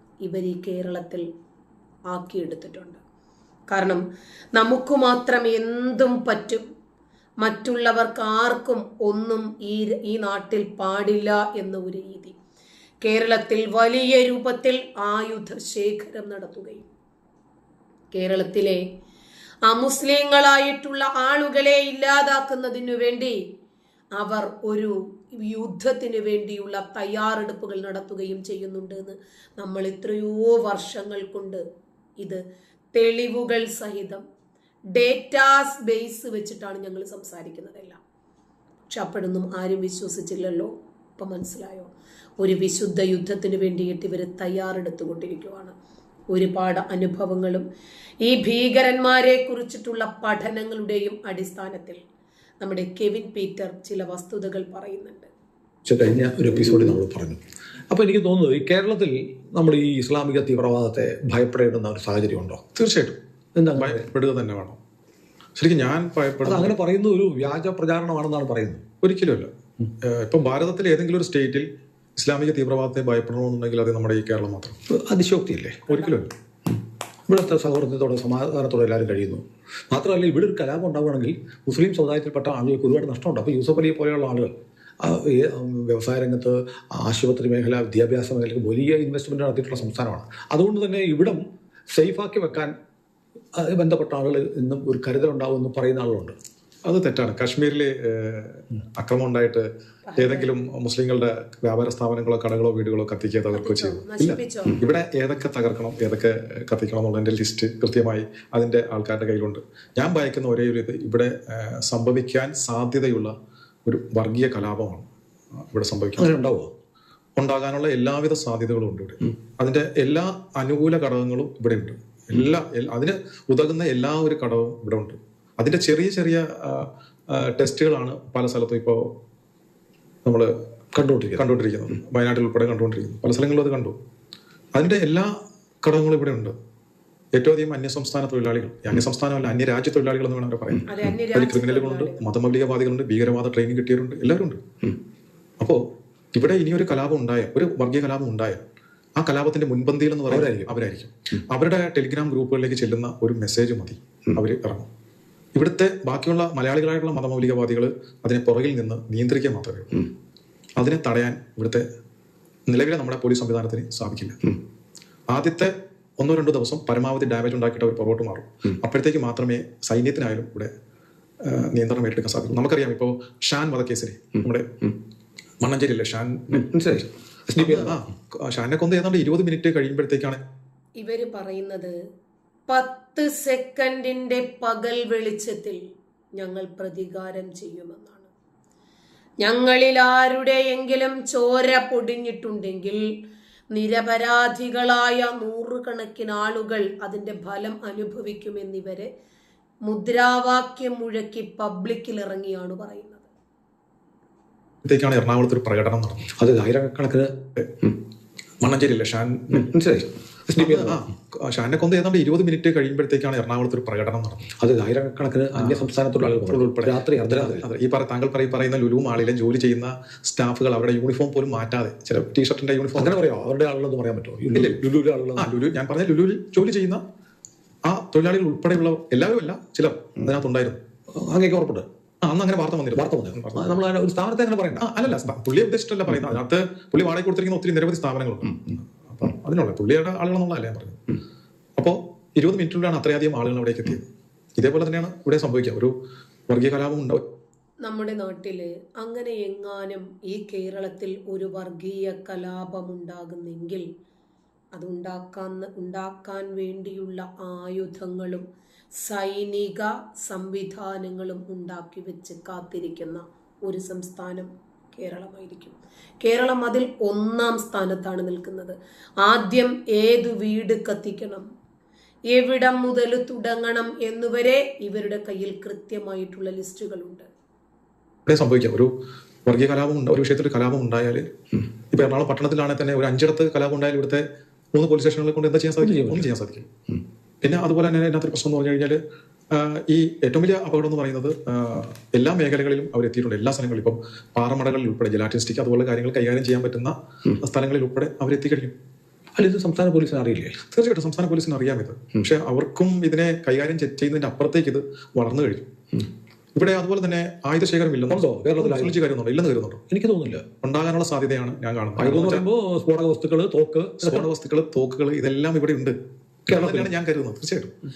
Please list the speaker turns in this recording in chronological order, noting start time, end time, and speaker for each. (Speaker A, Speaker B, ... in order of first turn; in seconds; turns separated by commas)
Speaker A: 0.2-1.2, Speaker A: 2.1-3.0, Speaker A: 3.7-4.0, Speaker A: 4.5-6.6, Speaker A: 7.4-12.3, Speaker A: 13.0-16.9, Speaker A: 18.1-18.8, Speaker A: 19.6-23.4, Speaker A: 24.1-31.6, Speaker A: 32.9-34.2, Speaker A: 34.9-38.0, Speaker A: 38.9-45.7, Speaker A: 46.3-47.6, Speaker A: 48.2-52.0, Speaker A: 52.6-55.3, Speaker B: 55.9-57.4, Speaker B: 57.9-62.6, Speaker C: 62.7-63.2, Speaker B: 63.5-64.0, Speaker C: 63.8-64.8, Speaker C: 65.6-66.7, Speaker B: 66.4-68.8, Speaker C: 69.0-69.5, Speaker C: 70.0-74.8, Speaker B: 74.9-75.8, Speaker C: 75.9-76.3, Speaker B: 77.3-92.7, Speaker B: 93.5-96.3, Speaker C: 96.8-99.7, Speaker A: 100.1-100.5, Speaker C: 100.2-113.3, Speaker A: 103.5-104.8, Speaker C: 113.8-115.1, Speaker C: 115.6-116.3, Speaker B: 116.2-116.7, Speaker C: 117.4-129.1, Speaker C: 130.2-130.5, Speaker B: 130.9-131.4, Speaker C: 131.4-133.9, Speaker C: 134.7-135.3, Speaker C: 135.8-136.5, Speaker C: 137.3-144.6, Speaker A: 140.8-142.3, Speaker C: 146.3-148.6, Speaker C: 149.2-154.9, Speaker B: 150.3-150.7, Speaker C: 155.5-160.1, Speaker C: 160.8-161.8, Speaker C: 162.7-164.5, Speaker C: 165.3-170.7, Speaker C: 171.4-174.9, Speaker C: 175.6-176.7, Speaker B: 176.5-178.0, Speaker C: 177.6-180.4, Speaker A: 181.0-181.9, Speaker A: 182.7-185.8, Speaker A: 186.3-188.3, Speaker A: 189.4-193.0, Speaker A: 193.7-199.1, Speaker A: 199.8-203.3, Speaker C: 204.8-206.3, Speaker B: 206.4-207.3, Speaker C: 207.6-207.8, Speaker C: 208.6-209.7, Speaker B: 209.5-211.0, Speaker C: 210.6-214.5, Speaker B: 214.6-217.6, Speaker C: 215.6-215.8, Speaker C: 216.4-223.2, Speaker B: 222.9-225.5, Speaker C: 224.5-224.8, Speaker C: 225.3-227.0, Speaker C: 227.8-230.8, Speaker B: 231.1-231.8, Speaker C: 232.2-233.8, Speaker B: 232.9-234.9, Speaker C: 234.8-241.0, Speaker C: 241.8-244.0, Speaker C: 244.6-245.9, Speaker C: 246.5-247.2, Speaker A: 247.8-253.8, Speaker A: 254.7-258.4, Speaker A: 259.0-271.4, Speaker A: 272.3-277.3, Speaker C: 278.2-278.9, Speaker C: 279.4-281.3, Speaker C: 281.9-286.7, Speaker B: 285.8-286.3, Speaker C: 287.4-289.0, Speaker C: 289.5-298.7, Speaker B: 299.4-300.6, Speaker C: 300.7-305.6, Speaker C: 306.5-309.8, Speaker B: 308.1-308.9, Speaker B: 309.9-310.4, Speaker C: 310.6-312.4, Speaker B: 312.0-314.2, Speaker C: 314.0-315.9, Speaker B: 316.5-316.9, Speaker C: 316.5-317.7